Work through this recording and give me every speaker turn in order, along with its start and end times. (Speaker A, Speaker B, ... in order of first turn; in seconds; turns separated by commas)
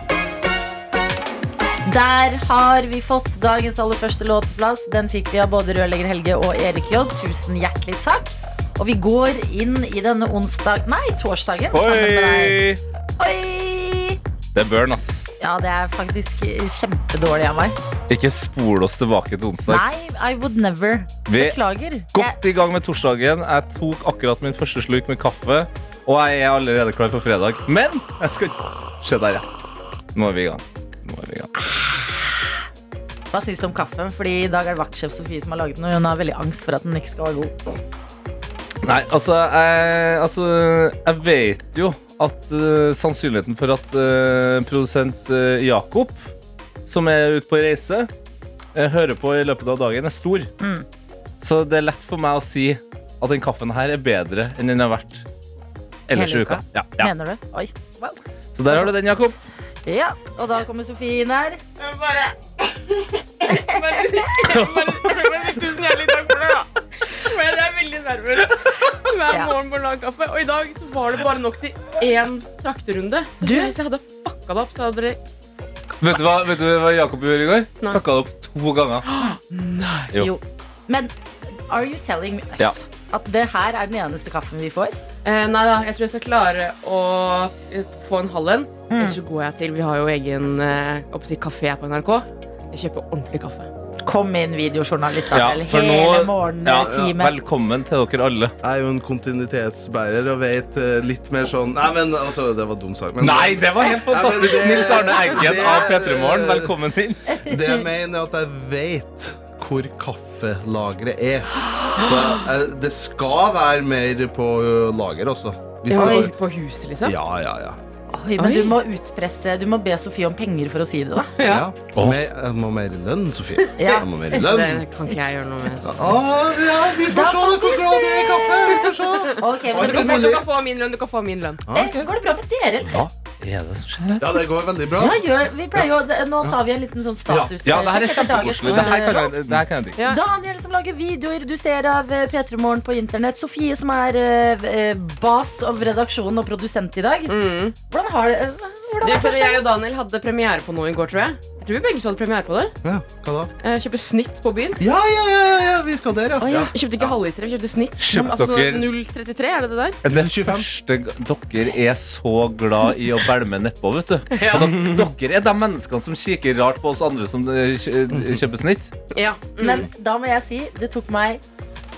Speaker A: 1.9-12.6, Speaker B: 11.7-12.8, Speaker A: 13.2-14.2, Speaker B: 14.6-15.2, Speaker A: 15.4-17.8, Speaker B: 18.1-19.8, Speaker A: 19.7-22.4, Speaker B: 21.3-21.6, Speaker B: 22.1-29.4, Speaker B: 30.1-31.7, Speaker A: 31.7-32.3, Speaker A: 33.3-37.5, Speaker B: 38.8-46.3, Speaker B: 46.9-48.1, Speaker B: 48.8-50.5, Speaker A: 50.6-50.9, Speaker B: 51.4-55.3, Speaker B: 56.1-57.1, Speaker A: 56.1-58.9, Speaker B: 58.5-59.4, Speaker A: 59.9-61.6, Speaker C: 61.8-75.2, Speaker B: 64.5-65.1, Speaker A: 69.3-69.5, Speaker A: 73.4-73.7, Speaker B: 76.0-79.1, Speaker C: 79.1-80.1, Speaker A: 80.2-81.1, Speaker A: 81.7-85.0, Speaker C: 85.2-93.7, Speaker A: 88.9-89.2, Speaker A: 94.0-97.4, Speaker B: 95.3-98.5, Speaker D: 96.8-97.2, Speaker D: 98.6-106.7, Speaker B: 103.2-107.2, Speaker A: 107.3-107.8, Speaker D: 107.4-116.3, Speaker C: 115.9-117.2, Speaker A: 115.9-116.3, Speaker D: 117.0-117.8, Speaker A: 118.1-121.3, Speaker C: 118.4-118.8, Speaker C: 121.3-121.7, Speaker D: 121.4-124.8, Speaker B: 122.0-122.2, Speaker A: 123.8-124.1, Speaker C: 124.3-126.0, Speaker D: 125.8-130.5, Speaker A: 127.1-128.5, Speaker C: 128.9-131.6, Speaker A: 129.4-130.3, Speaker D: 131.7-132.1, Speaker A: 131.7-133.1, Speaker B: 132.8-134.4, Speaker D: 134.2-135.2, Speaker A: 135.0-139.4, Speaker D: 137.3-137.8, Speaker B: 137.7-140.0, Speaker A: 140.0-149.6, Speaker C: 147.3-147.8, Speaker C: 149.0-152.8, Speaker D: 152.8-153.5, Speaker C: 153.6-154.8, Speaker D: 154.8-156.7, Speaker A: 156.4-156.7, Speaker C: 156.7-160.0, Speaker B: 158.0-158.9, Speaker B: 160.0-168.9, Speaker D: 160.1-160.7, Speaker D: 168.1-168.4, Speaker C: 169.1-169.9, Speaker A: 169.6-171.4